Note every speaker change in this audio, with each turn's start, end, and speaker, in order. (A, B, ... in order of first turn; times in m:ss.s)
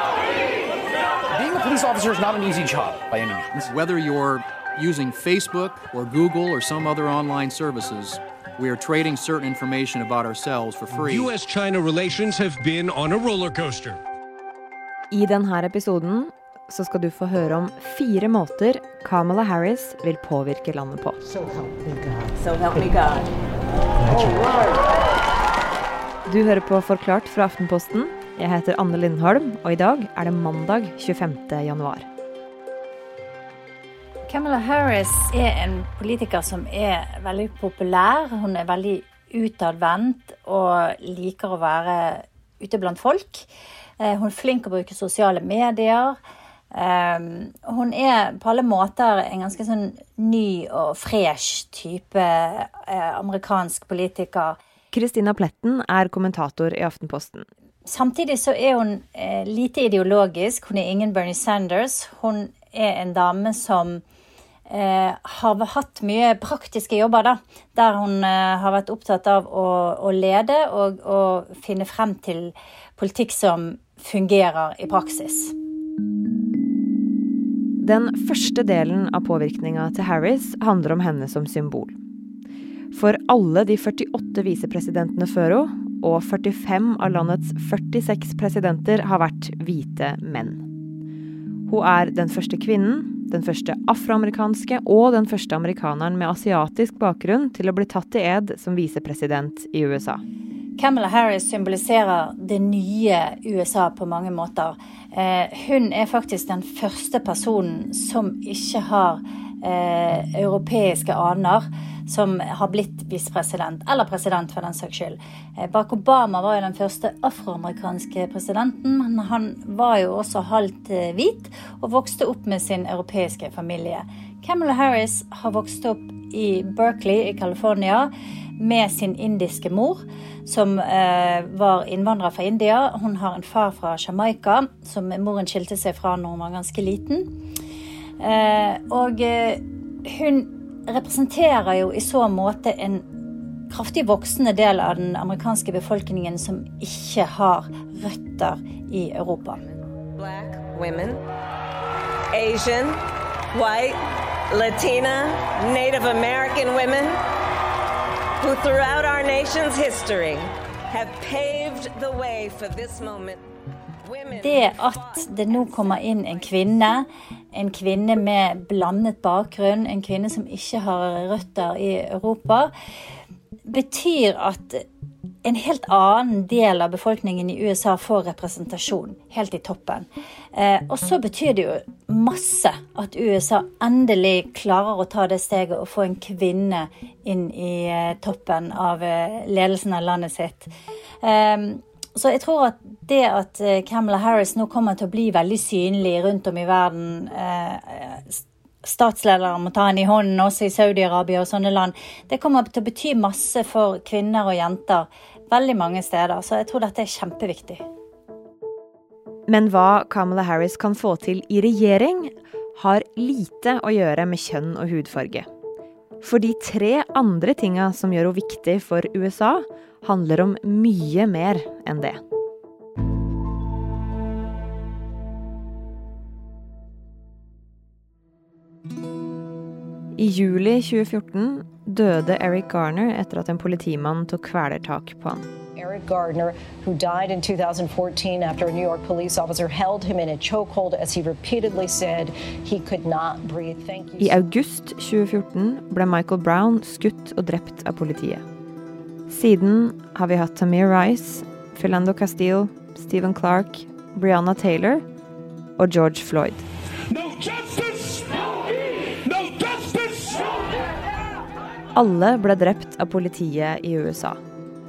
0:01.3-0:03.7 A
0:03.7-0:11.3 B
0:11.0-0:14.0 C
0:15.1-0:21.2 D
0:21.2-0:23.3 E
0:24.0-0:24.9 E
0:26.3-0:32.1 D
0:34.3-0:43.5 F
0:44.0-0:46.2 F
0:46.7-0:54.6 F
0:54.9-0:57.5 D
0:57.8-1:04.0 F
1:04.7-1:15.5 F
1:17.8-1:22.0 D
1:22.9-1:30.7 D
1:31.7-1:40.2 D
1:40.8-2:17.2 F
2:18.2-2:23.0 F
2:23.7-2:29.6 F
2:29.6-2:31.2 E
2:32.3-2:37.2 E
2:38.4-2:43.4 E
2:44.0-2:46.9 E
2:44.4-2:52.7 F
2:53.7-2:54.8 F
2:55.4-3:10.7 F
3:11.2-3:27.8 F
3:29.5-3:35.5 D
3:36.2-3:42.2 D
3:50.2-3:55.5 D
3:55.8-4:04.4 G
4:04.2-4:08.4 D
4:09.3-4:15.0 D
4:15.8-4:16.6 D
4:17.1-4:18.5 C
4:19.1-4:20.5 C
4:21.9-4:24.4 D